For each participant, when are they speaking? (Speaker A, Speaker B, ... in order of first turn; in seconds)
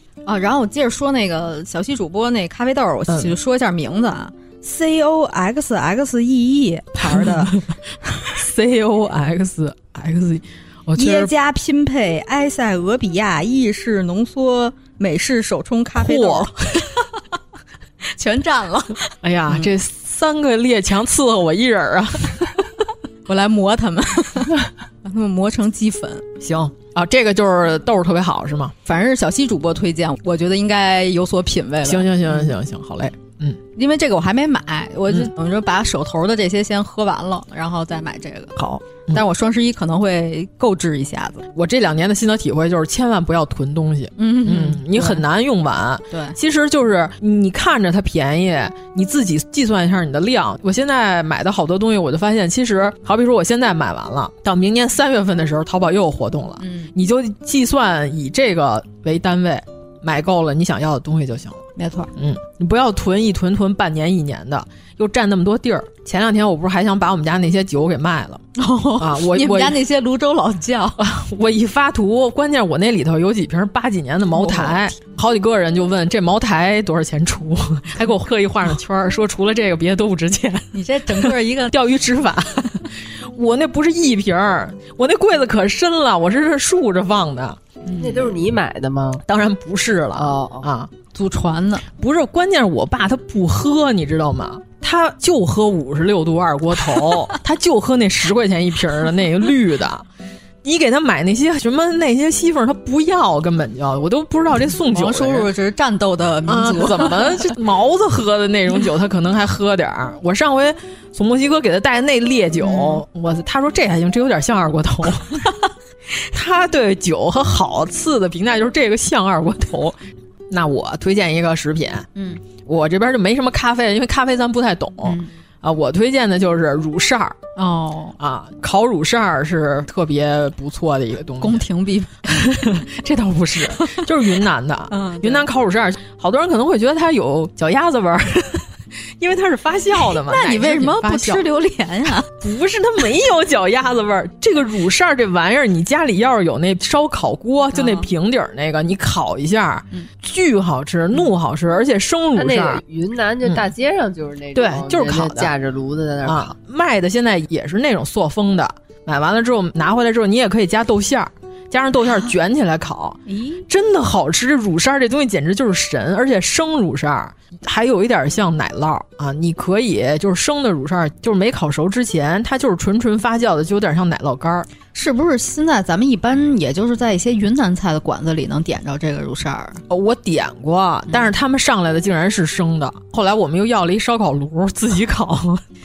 Speaker A: 0.2-7.6, 10.9-16.5, 18.1-19.7, 23.2-26.2, 28.8-32.5, 33.8-41.5, 44.2-45.2, 46.1-46.4, 56.6-56.9, 61.8-62.1, 68.5-71.0, 74.3-74.9, 80.7-81.7, 87.9-88.2, 91.1-91.8, 104.9-107.4, 112.6-113.0, 122.2-122.4, 125.0-125.3, 127.5-128.2, 131.4-132.6, 134.9-135.5, 140.0-142.3, 147.7-148.1, 163.3-163.7, 174.9-179.8
Speaker B: 3.1-3.3, 7.0-7.6, 8.3-11.3, 15.9-16.9, 19.2-22.6, 26.4-28.7, 31.8-33.6, 38.5-39.2, 41.5-61.6, 62.1-68.4, 69.0-69.8, 71.0-87.6, 89.2-90.9, 92.0-100.0, 100.6-105.5, 106.5-115.5, 116.3-120.0, 120.5-122.1, 122.6-127.4, 128.2-131.6, 132.2-141.4, 142.4-152.8, 154.5-155.5, 156.2-174.7, 179.9-185.6
Speaker C: 87.9-89.2, 90.2-90.7, 152.3-156.5